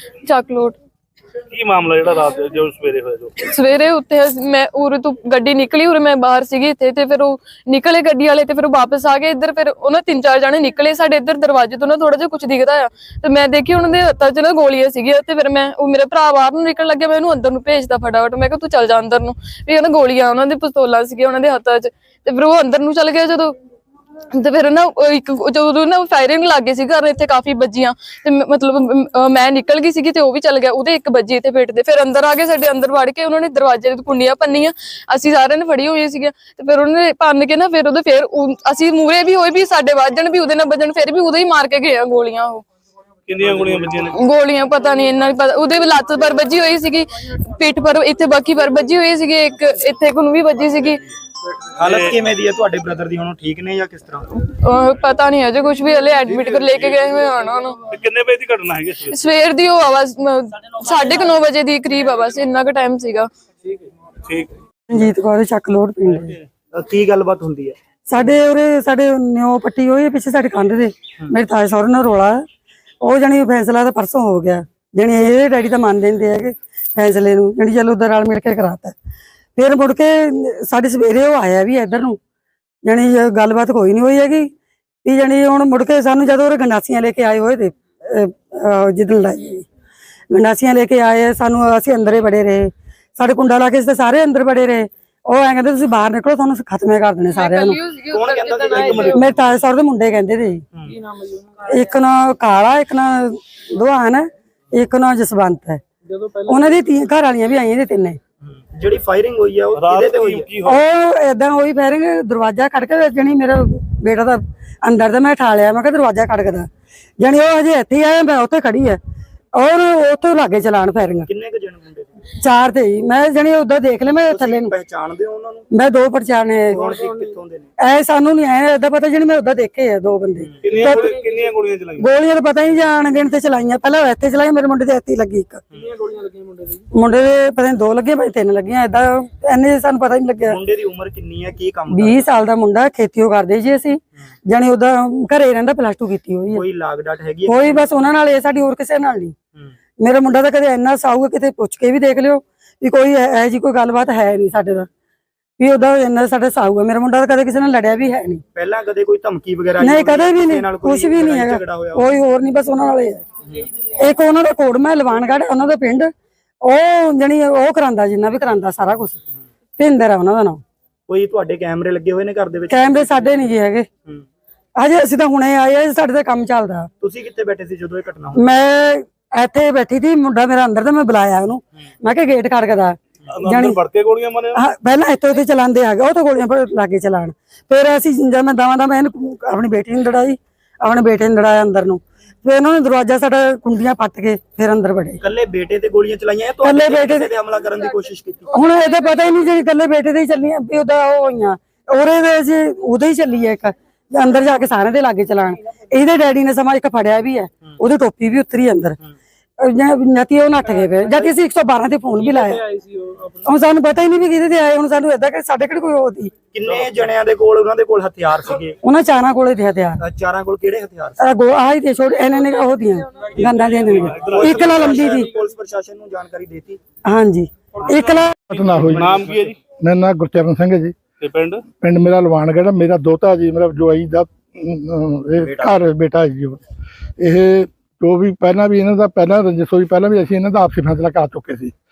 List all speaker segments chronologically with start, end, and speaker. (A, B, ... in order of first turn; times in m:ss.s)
0:00.2-0:00.8 A
0:01.5-0:03.4 B
0:03.4-0:23.5 A
0:24.3-0:42.6 A
0:43.3-0:44.2 B
0:43.4-0:43.9 C
0:44.1-0:51.0 A
0:51.8-0:54.3 C
0:51.8-0:52.2 B
0:54.5-0:57.8 A
0:56.3-0:57.0 B
0:57.9-0:59.2 B
0:59.1-1:03.3 A
1:04.3-1:04.6 B
1:04.9-1:06.3 D
1:06.7-1:07.8 C
1:08.1-1:12.4 D
1:13.0-1:18.9 D
1:19.6-1:22.2 D
1:22.8-1:24.5 D
1:25.0-1:29.6 D
1:30.3-1:37.8 D
1:37.4-1:39.2 A
1:38.1-1:39.4 C
1:38.8-1:39.2 B
1:39.1-1:40.6 D
1:41.6-1:45.8 D
1:46.4-1:48.2 D
1:48.7-1:50.6 C
1:49.7-1:50.8 B
1:50.6-1:56.7 D
1:57.2-1:59.0 D
1:59.6-2:01.3 D
2:01.3-2:02.1 C
2:02.4-2:04.8 D
2:04.2-2:05.7 C
2:05.7-2:06.9 D
2:06.7-2:07.7 C
2:07.8-2:11.2 D
2:10.6-2:12.2 B
2:12.0-2:15.6 D
2:16.9-2:20.6 D
2:20.4-2:22.4 C
2:21.9-2:26.6 D
2:26.5-2:28.1 C
2:27.5-2:29.4 D
2:30.0-2:34.9 D
2:35.6-2:38.4 D
2:38.6-2:42.1 C
2:39.8-2:43.2 D
2:43.9-2:49.2 D
2:49.8-2:50.6 D
2:51.1-2:53.4 C
2:52.7-2:53.9 D
2:54.8-2:56.9 D
2:57.0-2:58.5 C
2:58.3-3:03.8 D
3:03.3-3:04.7 B
3:04.5-3:15.2 D
3:15.2-3:18.9 C
3:16.6-3:17.3 D
3:18.5-3:29.0 D
3:29.6-3:32.8 D
3:33.4-3:36.4 D
3:36.5-3:38.8 C
3:38.9-3:40.0 D
3:40.0-3:41.2 C
3:41.2-3:45.3 D
3:43.9-3:45.0 B
3:44.2-3:46.8 C
3:47.1-3:48.5 D
3:48.5-3:49.2 E
3:48.6-3:49.6 B
3:49.0-3:49.4 C
3:49.8-3:51.0 E
3:51.2-3:51.6 B
3:51.8-3:56.6 E
3:55.4-3:55.8 C
3:57.2-4:01.7 E